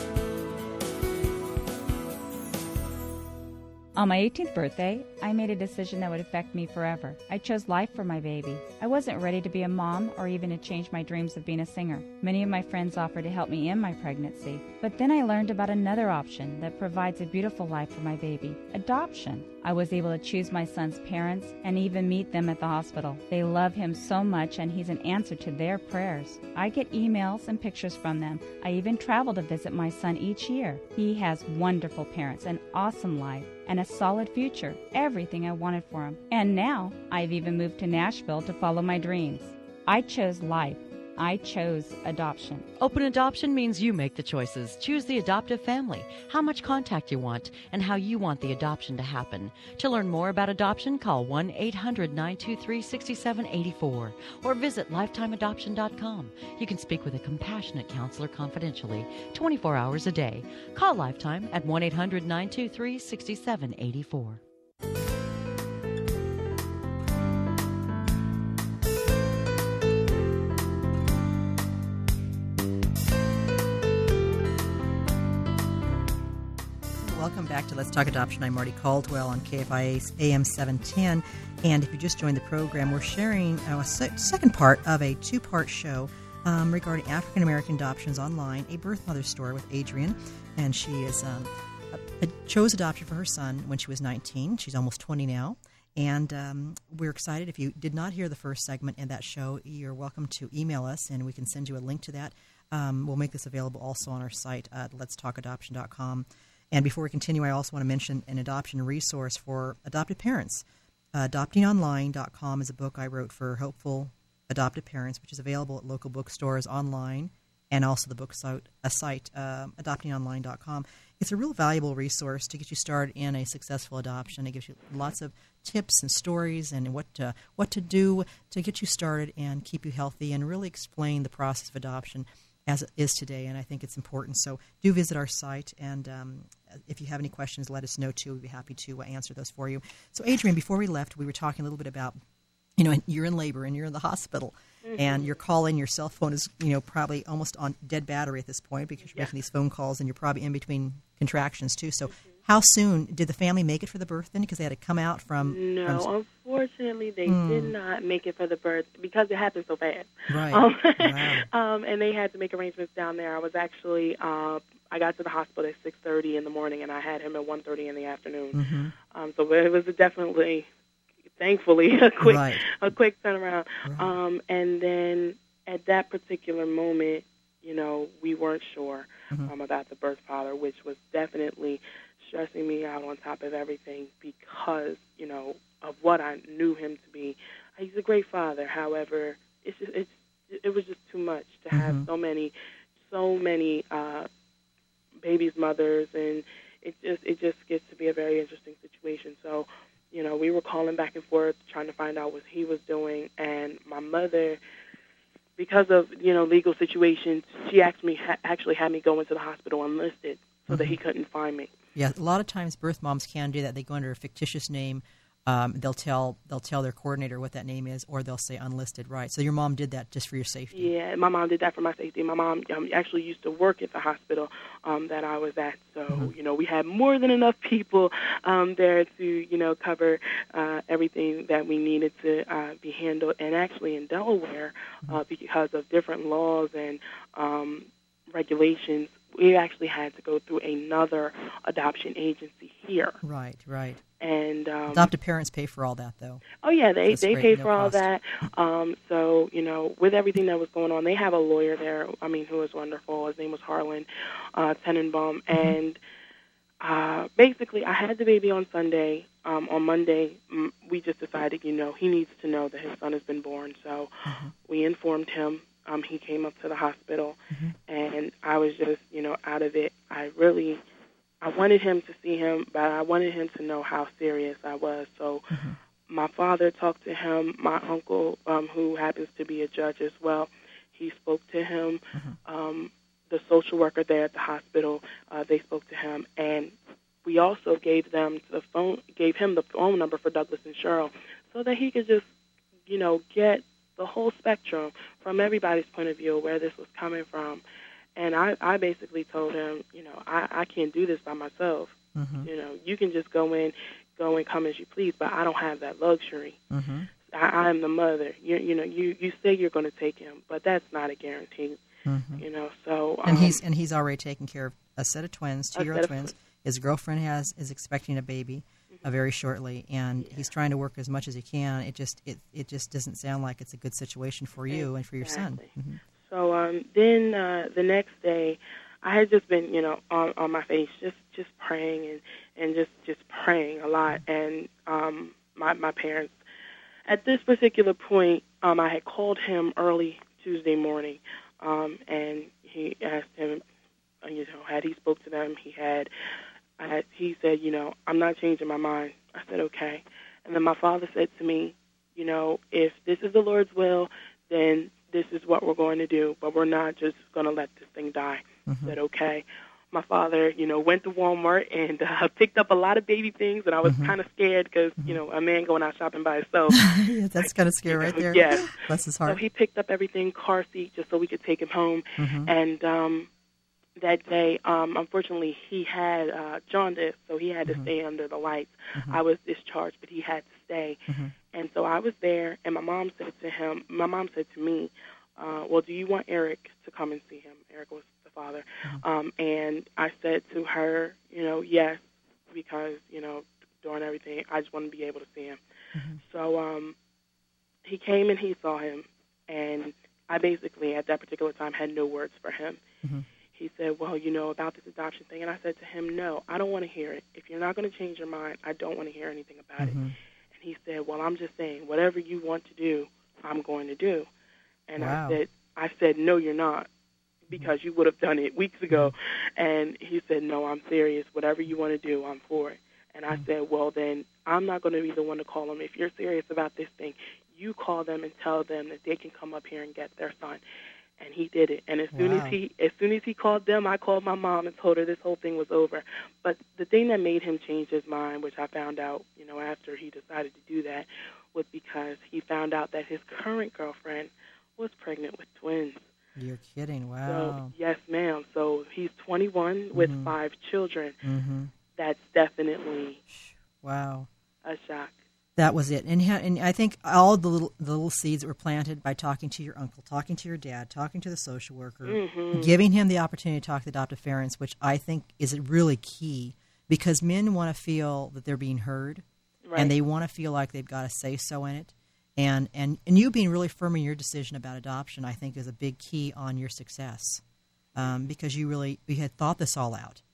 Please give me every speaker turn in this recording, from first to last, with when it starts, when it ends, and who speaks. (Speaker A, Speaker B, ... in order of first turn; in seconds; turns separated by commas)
Speaker A: 4.0-42.7, Speaker B: 42.8-64.4, Speaker C: 77.0-142.2, Speaker C: 142.8-156.1, Speaker D: 144.8-145.4, Speaker D: 155.4-170.7, Speaker C: 157.3-157.7, Speaker C: 160.3-161.5, Speaker C: 168.5-168.9, Speaker D: 171.4-194.3, Speaker C: 172.2-172.6, Speaker C: 173.8-174.1, Speaker C: 191.7-192.1, Speaker D: 195.2-204.6, Speaker D: 205.6-211.7, Speaker C: 210.7-211.0, Speaker C: 211.9-220.9, Speaker D: 220.7-243.2, Speaker C: 243.2-244.0, Speaker D: 244.2-245.1, Speaker C: 244.9-246.4, Speaker D: 246.6-256.0, Speaker C: 247.1-248.1, Speaker D: 256.8-270.8, Speaker C: 264.3-264.5, Speaker D: 271.4-292.2, Speaker C: 275.5-275.8, Speaker D: 292.9-297.6, Speaker D: 298.2-306.6, Speaker C: 302.1-302.5, Speaker C: 306.7-307.1, Speaker D: 307.3-311.8, Speaker C: 312.1-312.4, Speaker D: 312.4-313.6, Speaker C: 313.3-326.0, Speaker D: 315.8-316.4, Speaker D: 320.2-320.5, Speaker D: 324.7-336.4, Speaker D: 337.1-343.6, Speaker D: 344.2-346.1, Speaker D: 346.8-366.9, Speaker C: 358.7-359.0, Speaker C: 363.8-364.1, Speaker C: 366.7-369.4, Speaker D: 367.4-373.3, Speaker C: 372.2-372.5, Speaker D: 374.0-395.6, Speaker C: 381.1-381.3, Speaker D: 396.2-397.0, Speaker D: 397.9-402.8, Speaker D: 403.5-410.0, Speaker C: 409.8-410.1, Speaker D: 410.6-414.3, Speaker D: 414.9-416.9, Speaker C: 415.0-415.4, Speaker D: 417.5-430.6, Speaker D: 431.2-446.1, Speaker C: 432.1-432.6, Speaker C: 446.4-447.8, Speaker D: 447.2-451.2, Speaker C: 449.9-450.3, Speaker C: 451.2-451.7, Speaker D: 452.0-453.2, Speaker C: 453.3-454.3, Speaker D: 454.6-455.2, Speaker C: 455.6-469.2, Speaker D: 462.0-462.8, Speaker D: 469.6-469.9, Speaker C: 469.8-477.4, Speaker C: 477.9-480.2